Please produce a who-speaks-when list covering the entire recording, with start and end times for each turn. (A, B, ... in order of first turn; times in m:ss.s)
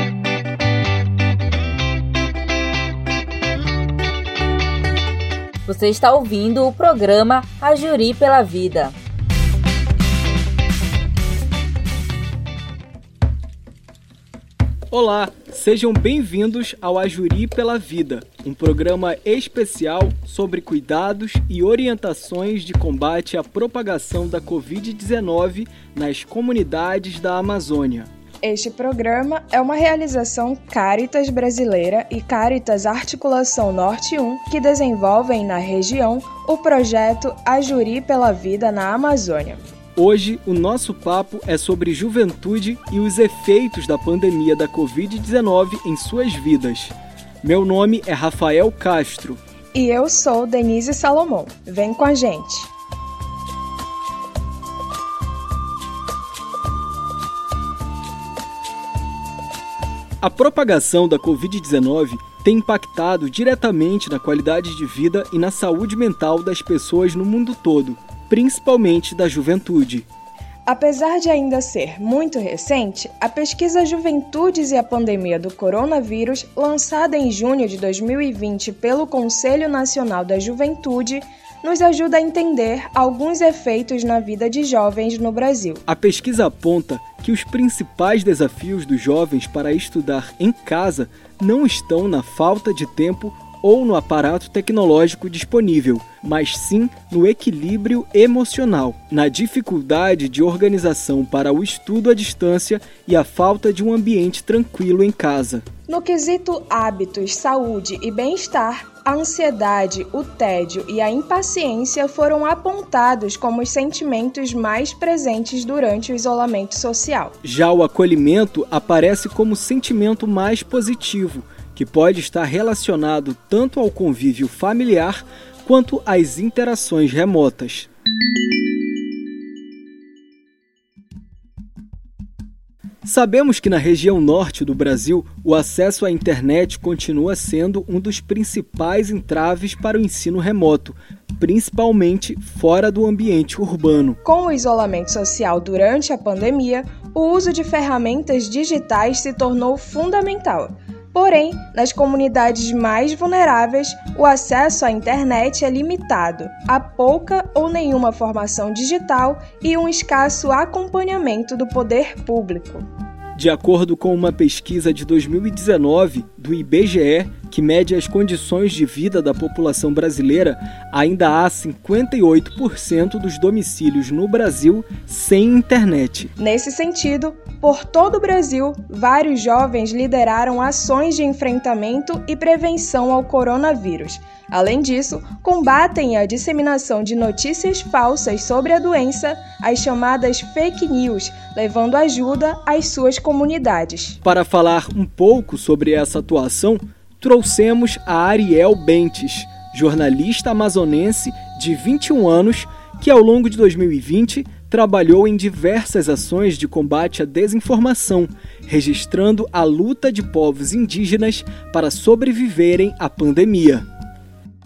0:05.7-0:09.0 A
0:14.9-0:28.1 B
0:28.4-0:39.6 C
0:40.0-0:49.4 B
0:49.7-0:52.7 C
1:00.2-1:10.1 B
1:10.7-1:25.8 C
1:25.9-1:45.7 B
1:45.9-1:57.4 C
1:57.4-2:07.9 B
2:13.0-2:24.2 B
2:24.2-2:42.9 C
2:43.4-2:56.3 B
2:56.4-3:14.2 C
3:14.2-3:33.9 B